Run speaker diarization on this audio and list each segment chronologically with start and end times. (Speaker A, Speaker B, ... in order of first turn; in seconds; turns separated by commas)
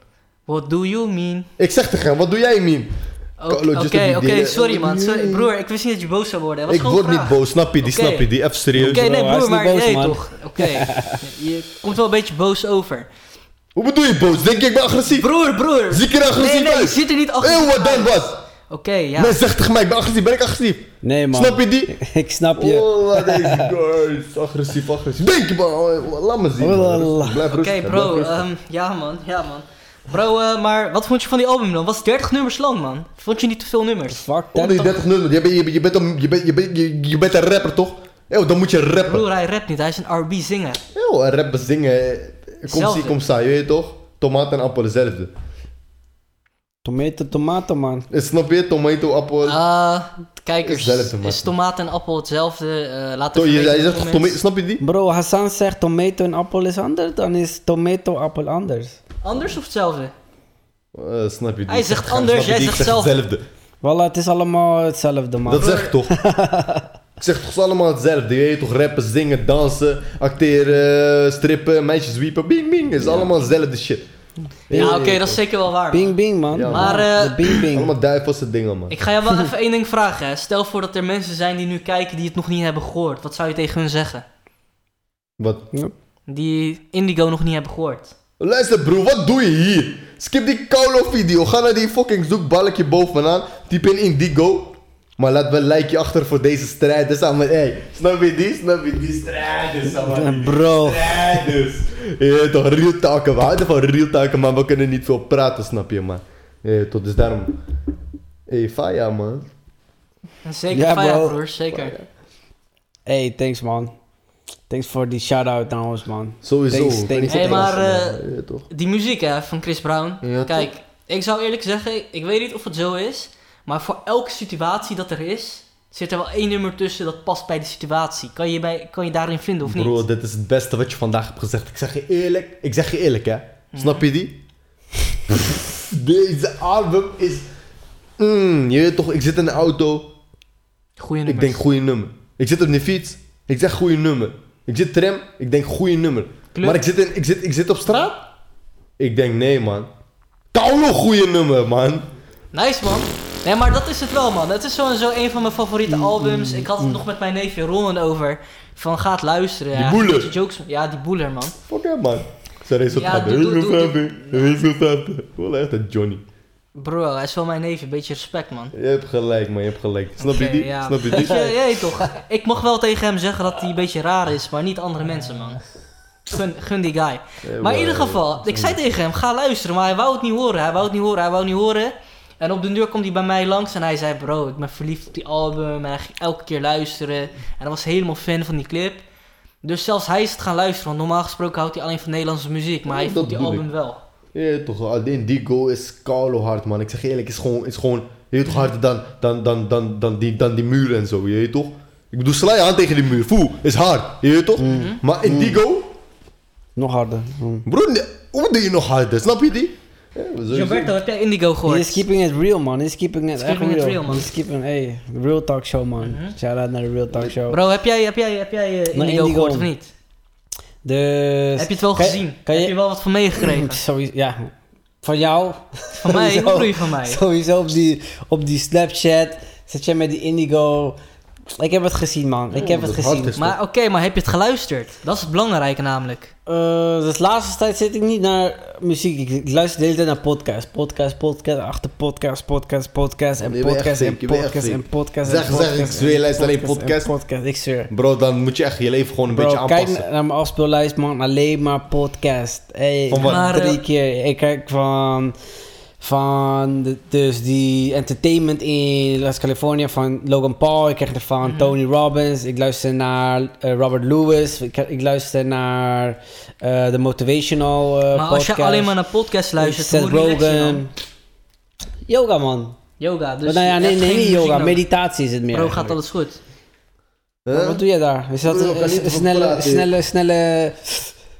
Speaker A: 0.5-1.5, Speaker B: 1.6-2.9, Speaker A: 3.4-13.1, Speaker B: 3.5-5.5, Speaker B: 6.7-9.0, Speaker C: 8.8-11.2, Speaker B: 13.8-15.3, Speaker A: 15.1-19.4, Speaker B: 15.9-18.4, Speaker B: 19.2-21.9, Speaker C: 21.0-23.7, Speaker B: 22.6-28.4, Speaker C: 26.6-27.5, Speaker A: 27.5-34.2, Speaker C: 34.1-35.0, Speaker B: 34.5-39.2, Speaker A: 39.0-40.8, Speaker B: 40.9-45.3, Speaker A: 42.7-43.2, Speaker C: 46.8-48.0, Speaker B: 48.1-49.6, Speaker A: 49.4-54.4, Speaker B: 50.6-51.5, Speaker B: 53.4-54.8, Speaker C: 54.8-59.0, Speaker A: 59.2-60.1, Speaker B: 60.9-63.4, Speaker A: 61.7-63.1, Speaker C: 63.8-66.8, Speaker B: 65.5-66.1, Speaker A: 65.5-66.0, Speaker B: 67.2-74.0, Speaker C: 73.0-73.3, Speaker B: 74.7-75.4, Speaker A: 74.7-76.2, Speaker C: 74.7-75.2, Speaker C: 75.9-77.9, Speaker B: 76.5-77.0, Speaker A: 76.7-77.6, Speaker B: 77.7-78.9, Speaker A: 78.9-84.2, Speaker B: 85.4-85.7, Speaker A: 86.3-88.1, Speaker B: 88.4-107.5, Speaker C: 100.0-101.2, Speaker B: 108.5-109.5, Speaker A: 110.4-112.0, Speaker C: 110.7-111.4, Speaker B: 111.7-112.1, Speaker C: 113.1-113.9, Speaker C: 114.7-117.7, Speaker B: 116.4-118.7, Speaker A: 117.3-130.1, Speaker B: 120.2-120.7, Speaker B: 129.6-134.4, Speaker A: 133.7-134.0, Speaker B: 135.3-137.5, Speaker B: 138.2-140.1, Speaker A: 141.0-141.6, Speaker B: 141.2-148.2, Speaker A: 146.6-146.8, Speaker B: 149.0-149.9, Speaker B: 150.5-152.1, Speaker A: 152.5-161.5, Speaker C: 155.9-156.7, Speaker B: 159.7-160.3, Speaker B: 161.7-166.2, Speaker A: 162.9-164.6, Speaker A: 166.8-168.7, Speaker B: 168.7-171.5, Speaker A: 170.2-175.6, Speaker A: 176.3-189.0, Speaker B: 177.4-178.8, Speaker A: 189.6-194.0, Speaker B: 192.9-193.7, Speaker B: 194.3-205.9, Speaker C: 204.6-205.6, Speaker A: 204.6-205.0, Speaker C: 206.8-207.7, Speaker B: 207.7-210.9, Speaker A: 210.5-212.0, Speaker C: 211.7-217.6, Speaker A: 213.3-214.3, Speaker A: 216.0-216.3, Speaker A: 217.5-219.9, Speaker C: 218.9-219.7, Speaker C: 220.8-222.8, Speaker A: 221.6-223.8, Speaker C: 223.4-224.5, Speaker C: 225.0-231.0, Speaker A: 226.0-227.2, Speaker C: 231.6-233.4, Speaker B: 232.6-233.6, Speaker A: 233.4-236.3, Speaker C: 236.5-247.9, Speaker B: 243.4-247.1, Speaker B: 247.9-250.1, Speaker C: 249.3-255.3, Speaker B: 253.1-253.5, Speaker A: 253.2-253.8, Speaker C: 256.0-268.9, Speaker A: 261.4-261.8, Speaker A: 268.1-270.8, Speaker C: 269.6-270.9, Speaker C: 272.1-272.8, Speaker A: 273.0-274.8, Speaker C: 273.4-275.9, Speaker A: 275.5-276.4, Speaker B: 277.4-277.8, Speaker C: 277.5-281.1, Speaker B: 278.4-279.9